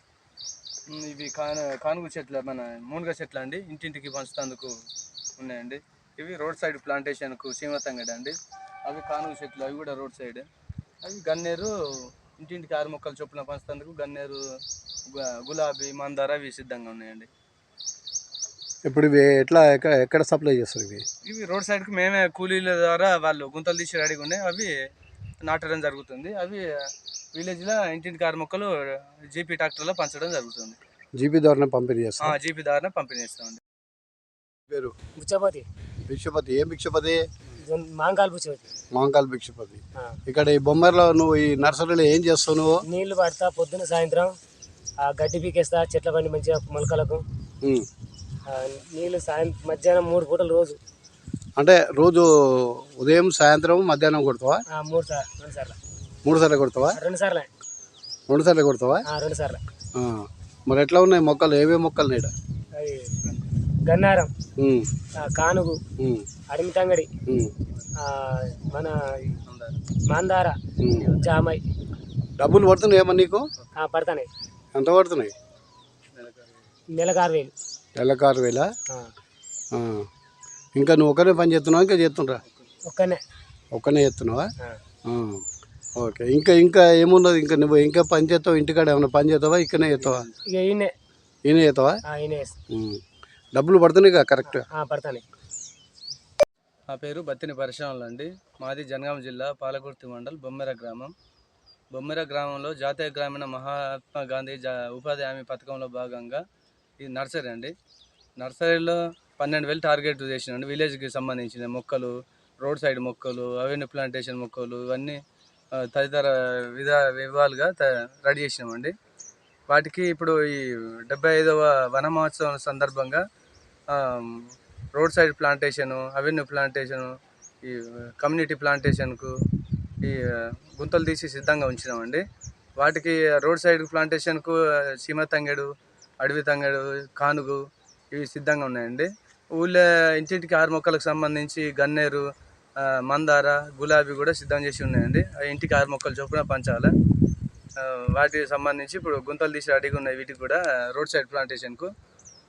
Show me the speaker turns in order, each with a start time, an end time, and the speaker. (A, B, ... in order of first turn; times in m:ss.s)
0:00.9-0:04.7 A
0:05.4-0:10.5 A
0:11.0-0:14.4 A
0:15.0-0:17.3 A
0:18.8-0:21.0 B
0:21.2-0:24.7 A
0:25.4-0:26.7 A
0:27.3-0:30.8 A
0:31.2-0:32.4 B
0:32.2-0:33.6 A
0:35.2-0:35.6 C
0:36.1-0:37.2 B
0:37.6-0:38.7 C
0:38.9-0:42.8 B
0:42.8-0:44.3 C
0:45.0-0:47.2 C
0:48.5-0:50.8 C
0:51.6-0:54.6 B
0:54.7-0:55.8 C
0:56.2-0:57.0 B
0:56.9-0:57.5 C
0:58.3-0:59.0 B
0:59.1-0:59.6 C
0:59.9-1:02.3 B
1:02.8-1:03.2 C
1:03.8-1:04.3 C
1:04.6-1:04.9 B
1:05.2-1:05.8 C
1:06.0-1:06.2 B
1:06.5-1:07.1 C
1:07.3-1:07.5 B
1:08.0-1:09.3 C
1:09.4-1:09.8 A
1:10.1-1:10.6 C
1:10.8-1:11.1 B
1:10.9-1:11.4 A
1:11.2-1:11.6 C
1:12.4-1:13.5 B
1:13.8-1:14.3 C
1:14.7-1:15.3 B
1:16.1-1:16.6 A
1:17.0-1:17.5 C
1:18.0-1:18.7 B
1:19.7-1:20.1 B
1:20.7-1:22.4 B
1:22.8-1:23.2 C
1:23.7-1:24.5 B
1:25.0-1:25.4 B
1:26.0-1:30.3 B
1:29.9-1:30.4 A
1:30.5-1:30.9 C
1:31.4-1:32.0 B
1:32.1-1:32.5 C
1:32.7-1:33.0 B
1:33.5-1:34.6 B
1:34.5-1:35.2 C
1:36.9-1:41.1 A
1:41.9-1:46.4 A
1:47.0-1:47.7 A
1:48.4-1:55.2 A
1:55.7-1:58.9 A
1:59.7-2:03.2 A
2:03.9-2:09.3 A
2:10.0-2:12.2 A
2:12.8-2:15.7 A
2:16.2-2:22.2 A
2:22.8-2:26.9 A
2:27.8-2:31.9 A